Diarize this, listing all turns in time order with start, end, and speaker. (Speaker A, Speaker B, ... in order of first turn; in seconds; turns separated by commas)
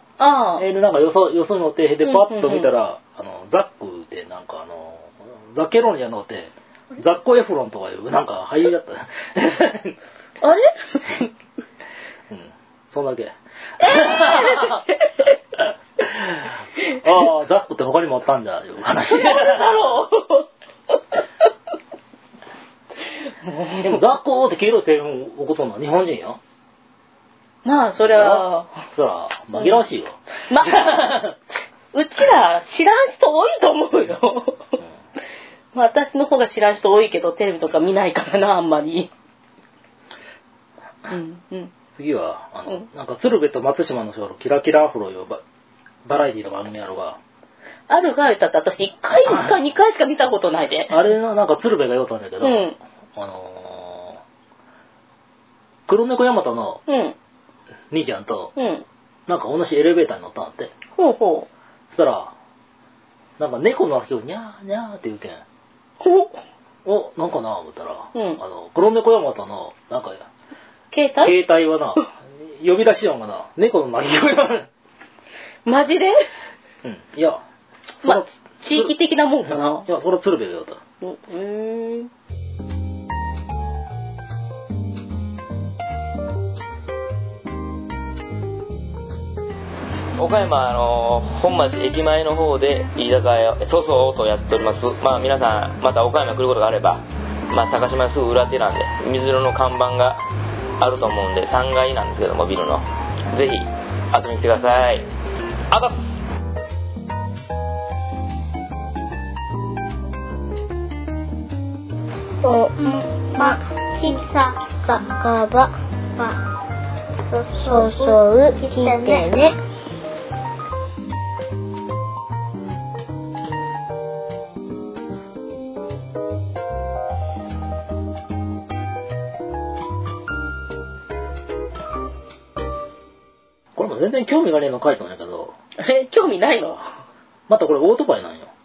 Speaker A: 0.2-0.7, Speaker B: 0.6-10.0, Speaker A: 2.0-2.7, Speaker A: 10.4-11.3, Speaker B: 12.3-14.9, Speaker A: 13.8-15.3, Speaker B: 15.6-19.9, Speaker A: 19.1-21.2, Speaker A: 23.3-24.0, Speaker B: 23.8-26.4, Speaker A: 27.6-28.8, Speaker B: 28.0-31.4, Speaker A: 29.6-29.8, Speaker A: 30.5-31.2, Speaker A: 31.9-34.8, Speaker A: 35.7-39.1, Speaker A: 41.1-41.7, Speaker B: 41.9-45.4, Speaker B: 46.0-47.2, Speaker A: 47.9-51.0, Speaker B: 49.3-49.5, Speaker B: 50.9-52.6, Speaker A: 52.4-52.8, Speaker B: 53.1-54.2, Speaker B: 55.9-56.8, Speaker A: 56.9-57.1, Speaker B: 57.9-58.5, Speaker A: 58.5-58.9, Speaker B: 59.3-60.7, Speaker A: 60.9-61.5, Speaker B: 61.9-62.3, Speaker B: 63.4-65.4, Speaker A: 66.0-66.4, Speaker B: 66.8-70.2, Speaker A: 68.1-68.4, Speaker A: 70.9-71.3, Speaker B: 71.2-74.7, Speaker A: 75.6-76.2, Speaker B: 76.8-77.4, Speaker B: 78.0-78.9, Speaker A: 78.0-79.9, Speaker B: 79.5-80.8, Speaker A: 81.0-82.1, Speaker C: 90.2-100.2, Speaker C: 100.8-105.0, Speaker C: 105.7-106.1, Speaker D: 112.4-116.4, Speaker D: 117.2-119.5, Speaker A: 118.8-119.4, Speaker B: 133.8-135.5, Speaker A: 135.8-136.8, Speaker B: 137.5-138.5